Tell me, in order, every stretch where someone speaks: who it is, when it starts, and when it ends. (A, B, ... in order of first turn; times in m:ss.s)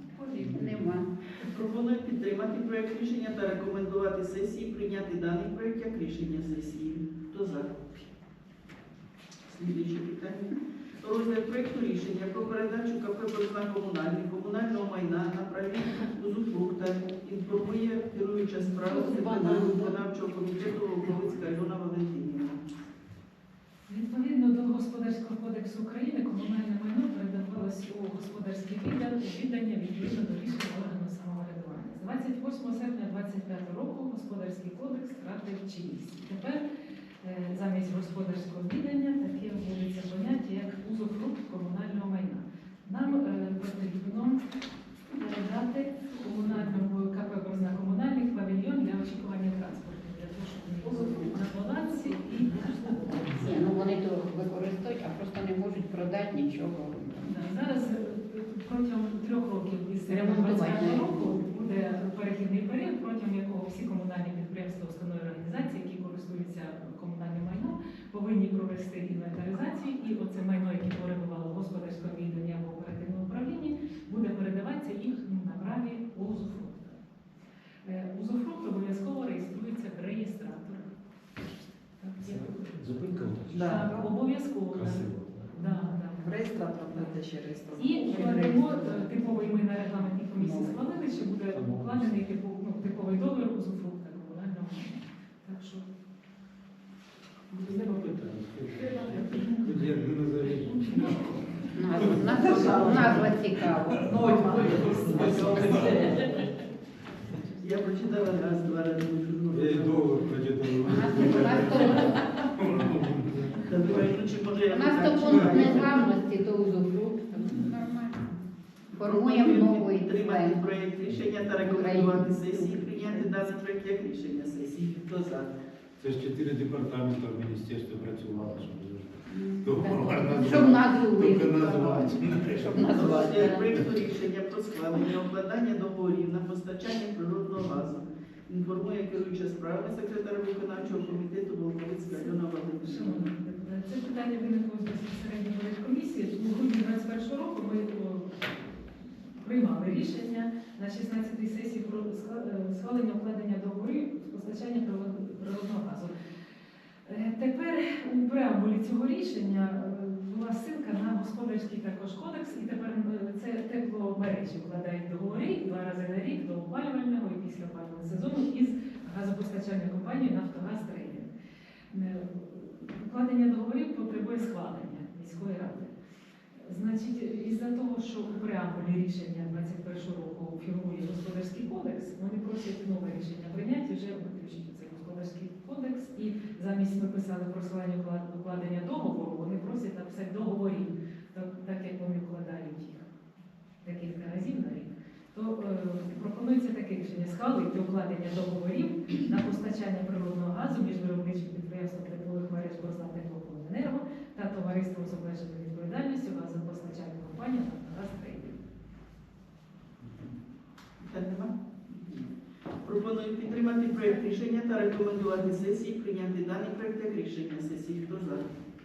0:00.1-0:00.7 A
0:00.4-0:00.7 B
0:00.5-0:01.1 C
0:01.4-0:07.8 D
0:09.5-0:22.6 D
0:18.8-0:20.0 C
0:23.9-0:36.6 A
0:37.2-0:44.4 A
0:45.1-0:53.9 A
0:50.9-0:51.2 E
0:53.3-0:57.4 C
0:57.2-1:17.0 A
1:00.1-1:01.4 C
1:17.8-1:20.9 A
1:22.0-1:27.1 A
1:22.2-1:24.1 B
1:23.5-1:24.1 E
1:24.7-1:25.5 B
1:25.5-1:29.3 E
1:27.7-1:35.8 A
1:30.4-1:30.7 E
1:31.5-1:32.2 B
1:37.5-1:41.3 B
1:38.9-1:39.6 A
1:39.1-1:39.4 E
1:40.7-1:41.3 A
1:41.7-1:44.2 C
1:41.9-1:42.6 B
1:42.1-1:46.6 E
1:44.0-1:46.0 B
1:44.4-1:46.2 D
1:47.6-1:50.3 D
1:49.5-1:54.0 B
1:50.8-1:52.2 C
1:53.6-1:56.1 D
1:54.7-1:58.3 C
1:55.3-1:55.7 B
1:57.4-1:57.7 B
1:58.9-2:00.7 C
1:59.0-2:05.5 D
2:01.1-2:01.4 B
2:01.6-2:03.5 C
2:06.0-2:12.8 B
2:09.3-2:13.8 C
2:11.2-2:23.3 D
2:22.1-2:28.8 A
2:29.4-2:36.1 A
2:37.0-2:51.3 A
2:51.9-2:55.9 A
2:56.6-3:13.1 A
3:13.8-3:28.6 A
3:31.0-3:32.3 D
3:32.8-3:38.5 D